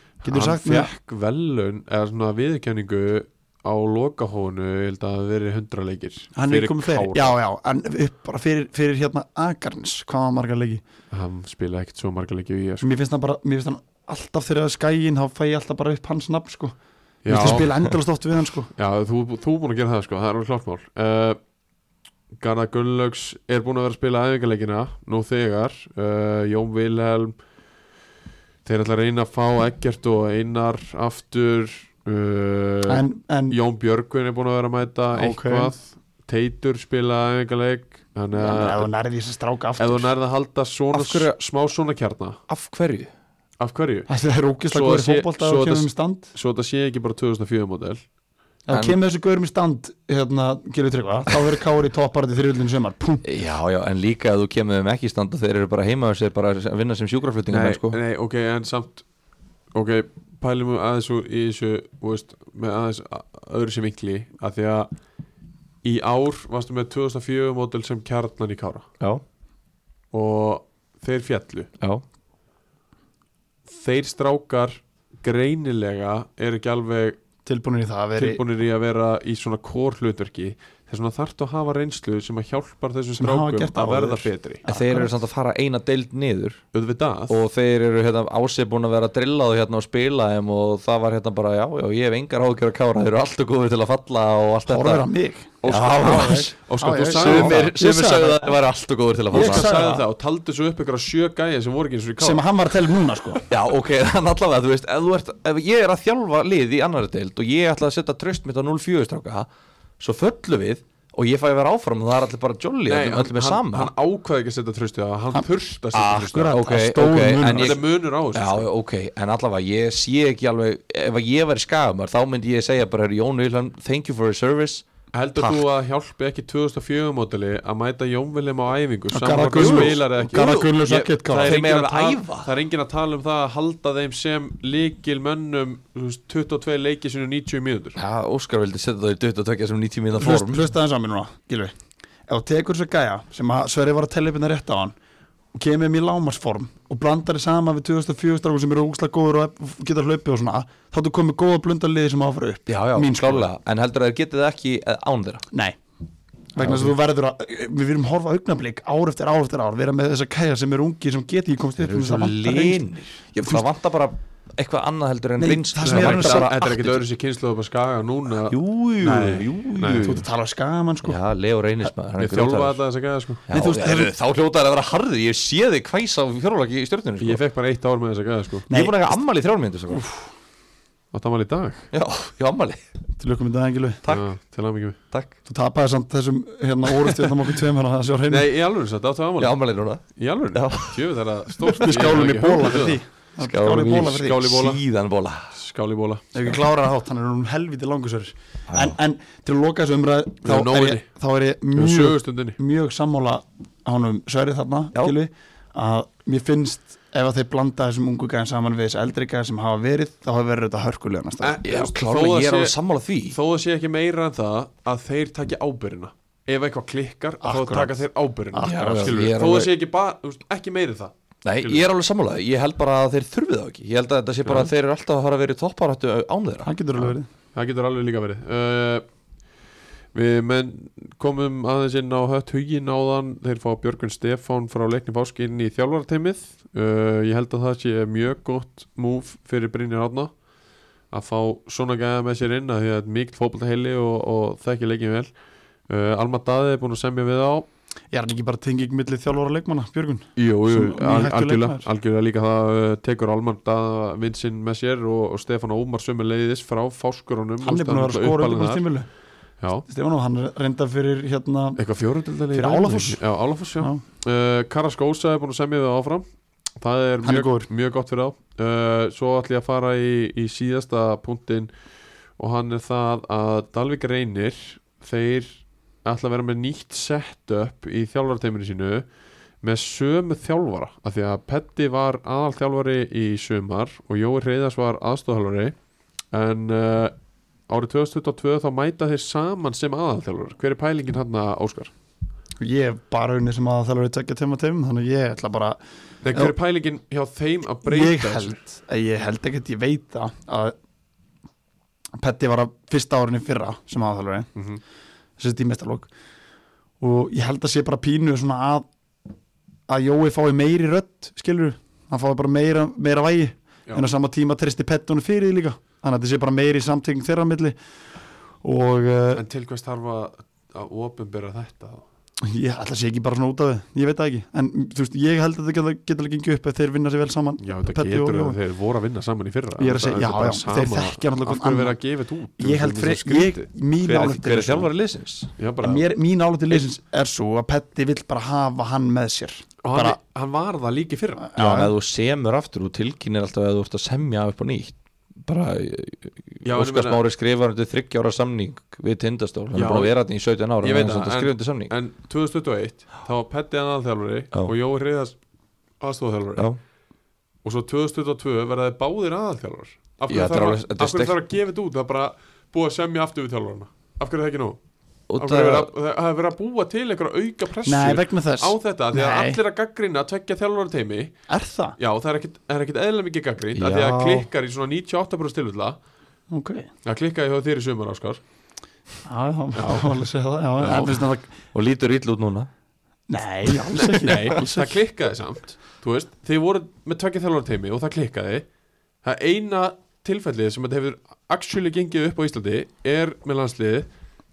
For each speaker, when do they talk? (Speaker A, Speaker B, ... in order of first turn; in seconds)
Speaker A: 0.2-0.9, 6.3-10.8, 12.8-16.8, 17.3-18.7, 32.9-33.6, 35.1-35.7, 38.4-40.1, 44.1-46.3, 48.7-53.2, 77.5-78.4, 83.2-85.2, 94.7-98.6, 99.3-100.0, 102.2-103.4, 115.3-117.8, 129.1-131.6, 140.2-141.7, 142.3-145.0, 145.5-153.5, 155.5-155.8, 156.5-162.8, 165.4-166.5, 169.0-169.4, 170.0-171.2, 173.5-174.1, 178.7-179.0, 179.9-180.3, 183.2-184.0, 185.5-188.5, 191.7-194.5, 196.3-211.6, 217.4-219.2, 226.6-227.3, 248.1-251.9, 257.6-259.1, 259.9-261.8, 262.5-263.2, 267.2-267.7, 292.6-295.8, 297.8-300.8, 302.2-304.5, 305.4-306.1, 307.0-308.9, 309.9-317.8, 318.6-319.4, 322.4-328.6, 329.8-332.0, 332.6-334.9, 335.8-340.2, 341.5-341.9, 367.9-369.6, 371.5-372.0, 376.5-376.9, 379.2-381.6, 383.3-385.0
Speaker B: 0.3-7.4, 11.1-12.9, 17.2-17.9, 18.8-21.4, 22.4-27.4, 28.6-38.9, 39.8-42.4, 43.6-44.1, 44.7-48.0, 57.5-59.0, 59.7-64.9, 65.8-68.9, 70.1-71.7, 73.7-77.2, 78.2-84.6, 86.7-87.3, 95.6-97.8, 99.3-102.4, 112.9-116.6, 117.5-118.7, 125.1-138.0, 165.8-170.2, 172.2-173.4, 177.2-178.7, 181.1-181.9, 184.1-185.0, 188.3-193.0, 194.0-194.8, 195.5-196.2, 200.4-201.1, 201.8-202.6, 211.4-212.7, 213.3-221.8, 227.6-229.1, 230.1-240.3, 241.1-245.3, 245.9-247.7, 250.4-258.8, 261.8-266.2, 266.8-271.7, 272.4-279.1, 279.6-285.8, 286.3-287.1, 287.7-291.9, 296.2-298.6, 304.6-304.8, 319.4-322.0, 327.6-333.7, 335.6-336.1, 339.8-341.6, 346.6-347.2, 349.8-350.2, 350.8-355.4, 356.0-356.7, 357.6-364.8, 365.4-371.4, 372.0-376.0, 377.1-378.4, 379.7-380.1, 380.8-381.1, 383.9-388.6, 389.2-394.1
Speaker C: 40.9-41.4, 42.5-43.1, 48.7-49.0, 53.2-58.0, 84.7-86.6, 87.3-95.1, 95.6-99.7, 103.5-109.5, 110.0-113.9, 116.5-117.8, 118.3-124.8, 129.5-130.0, 131.4-132.5, 138.0-140.7, 152.7-155.4, 156.6-156.9, 161.8-167.0, 168.5-170.2, 171.0-172.8, 173.5-177.4, 178.7-180.1, 181.9-182.8, 185.1-185.4, 189.4-191.0, 193.4-195.6, 198.7-199.0, 211.6-213.4, 218.6-219.7, 221.4-226.7, 334.0-335.5, 341.6-351.9, 360.3-361.4, 365.3-365.9, 373.8-374.4, 381.7-382.7